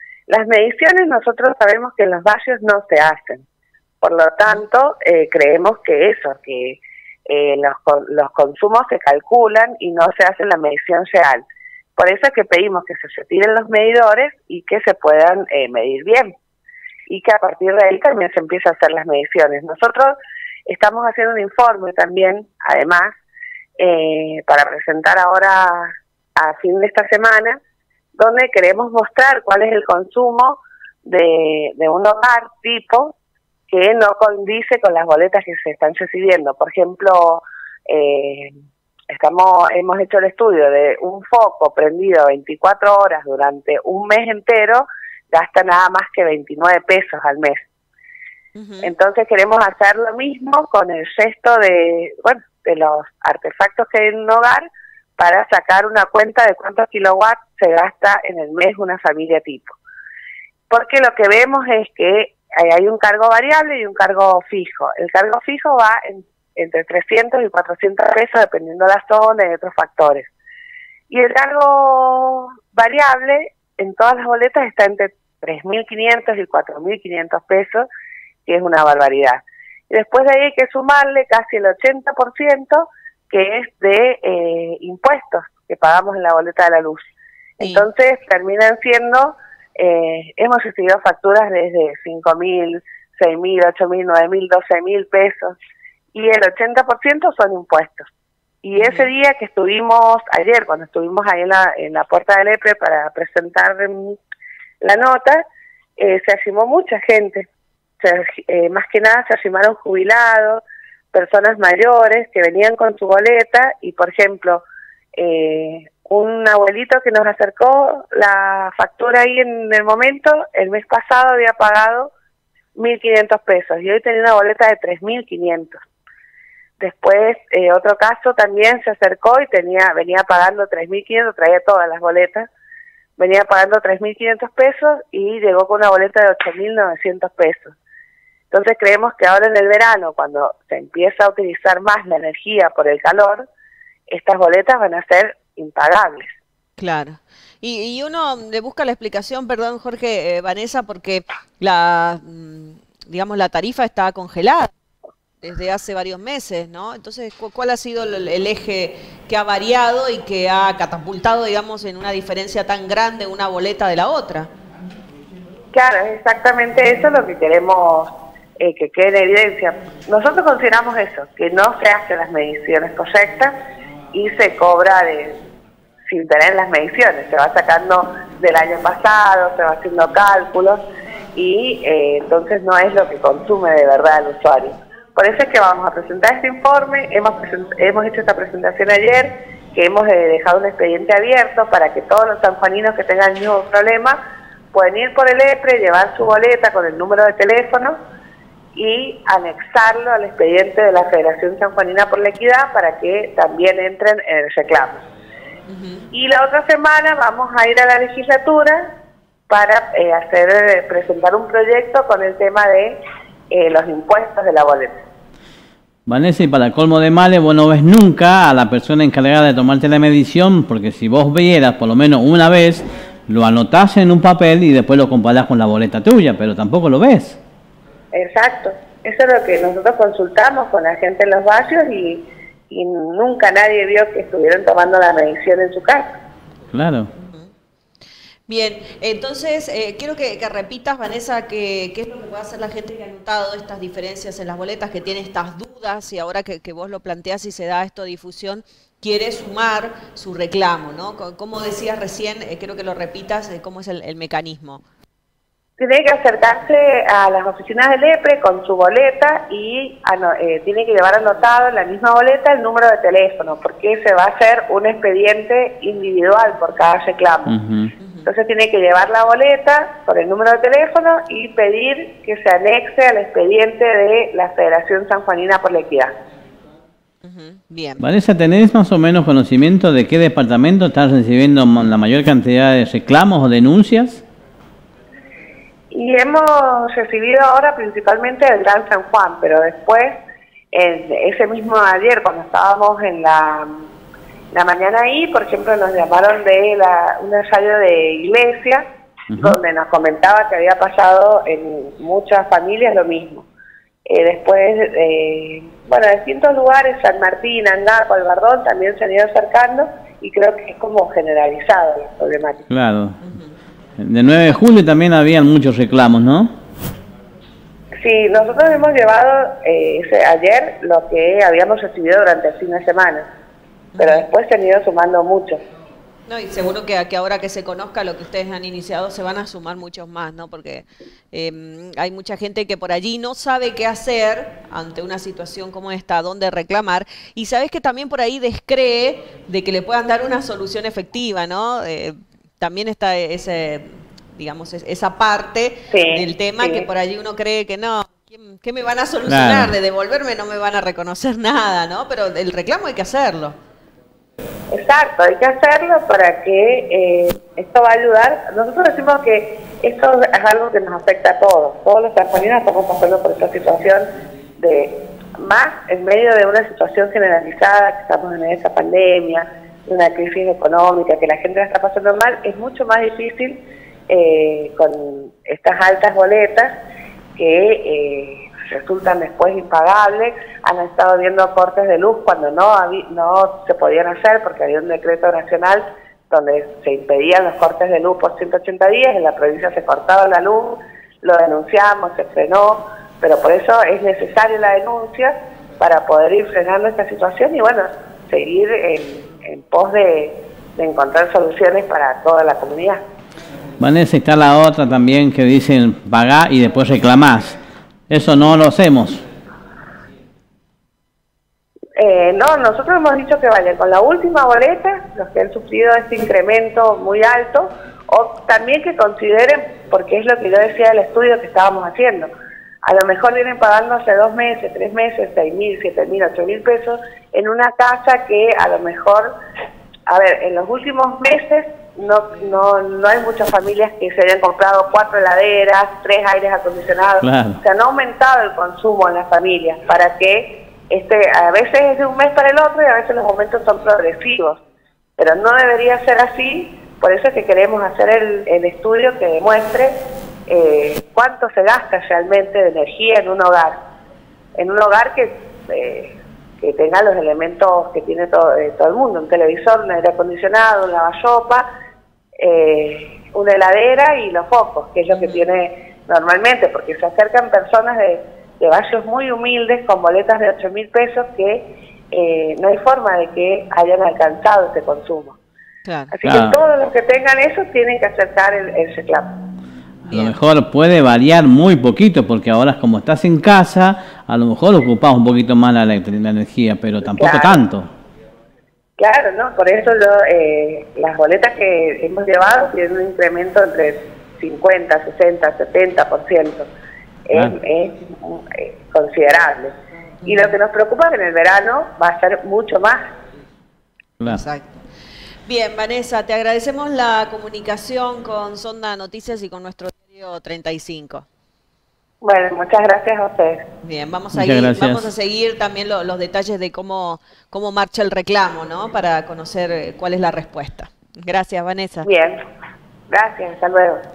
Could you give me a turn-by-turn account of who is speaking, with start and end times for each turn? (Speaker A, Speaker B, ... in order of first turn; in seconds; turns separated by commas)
Speaker A: 0.3-3.4, Speaker A: 4.0-11.4, Speaker A: 12.0-16.3, Speaker A: 17.1-23.1, Speaker A: 23.8-27.6, Speaker A: 28.1-33.1, Speaker A: 33.7-38.5, Speaker A: 39.1-47.6, Speaker B: 48.5-48.9, Speaker A: 48.8-59.8, Speaker A: 60.7-70.3, Speaker A: 71.1-77.9, Speaker A: 78.5-87.0, Speaker A: 87.6-95.5, Speaker B: 87.6-87.8, Speaker A: 96.1-98.0, Speaker A: 98.6-104.2, Speaker B: 98.8-99.1, Speaker A: 104.8-105.5, Speaker A: 106.0-107.5, Speaker A: 108.0-110.6, Speaker A: 111.1-114.6, Speaker A: 115.2-122.1, Speaker A: 122.7-125.8, Speaker A: 126.8-132.5, Speaker A: 133.2-137.7, Speaker A: 138.5-143.5, Speaker A: 144.1-146.3, Speaker B: 146.8-154.7, Speaker B: 155.4-164.5, Speaker A: 165.7-173.6, Speaker A: 174.1-175.3, Speaker A: 176.1-180.8, Speaker A: 181.3-194.2, Speaker A: 194.7-197.9, Speaker A: 198.7-205.0, Speaker B: 205.7-206.1, Speaker A: 206.1-208.8, Speaker A: 209.5-213.0, Speaker A: 213.5-215.0, Speaker C: 216.1-227.4, Speaker A: 228.1-236.1, Speaker C: 236.7-237.1, Speaker B: 237.2-237.5, Speaker B: 238.5-254.8, Speaker A: 255.8-267.5, Speaker C: 267.4-267.9, Speaker B: 268.0-268.2, Speaker A: 268.2-276.1, Speaker B: 277.2-278.0, Speaker C: 278.0-284.2, Speaker A: 285.9-290.2, Speaker A: 290.7-293.7, Speaker A: 294.5-298.8, Speaker C: 299.3-299.6, Speaker A: 299.4-303.5, Speaker A: 304.1-312.6, Speaker C: 312.7-313.2, Speaker B: 313.2-313.5, Speaker C: 314.0-316.5, Speaker A: 318.0-323.2, Speaker B: 323.9-324.2, Speaker A: 324.0-325.6, Speaker B: 326.3-353.6, Speaker A: 345.9-346.9, Speaker C: 349.3-349.8, Speaker A: 354.7-364.1, Speaker A: 364.6-376.7, Speaker A: 377.4-403.0, Speaker C: 403.8-407.6, Speaker C: 408.1-409.2, Speaker A: 411.9-422.3, Speaker A: 422.8-429.3, Speaker A: 430.1-444.6, Speaker C: 437.2-437.6, Speaker A: 445.2-449.9, Speaker A: 450.5-453.8, Speaker A: 454.6-461.7, Speaker A: 462.4-475.4, Speaker B: 465.1-465.4, Speaker B: 475.8-476.1, Speaker A: 476.1-479.3, Speaker C: 476.2-476.6, Speaker B: 480.1-480.3, Speaker C: 480.1-487.9, Speaker A: 487.0-487.6, Speaker A: 489.0-496.7, Speaker A: 497.3-499.7, Speaker B: 500.2-500.5, Speaker A: 500.2-503.0, Speaker B: 504.2-504.8, Speaker B: 505.4-511.2, Speaker A: 512.2-513.6, Speaker B: 513.8-522.1, Speaker C: 514.3-515.1, Speaker A: 522.0-522.4, Speaker A: 523.1-524.0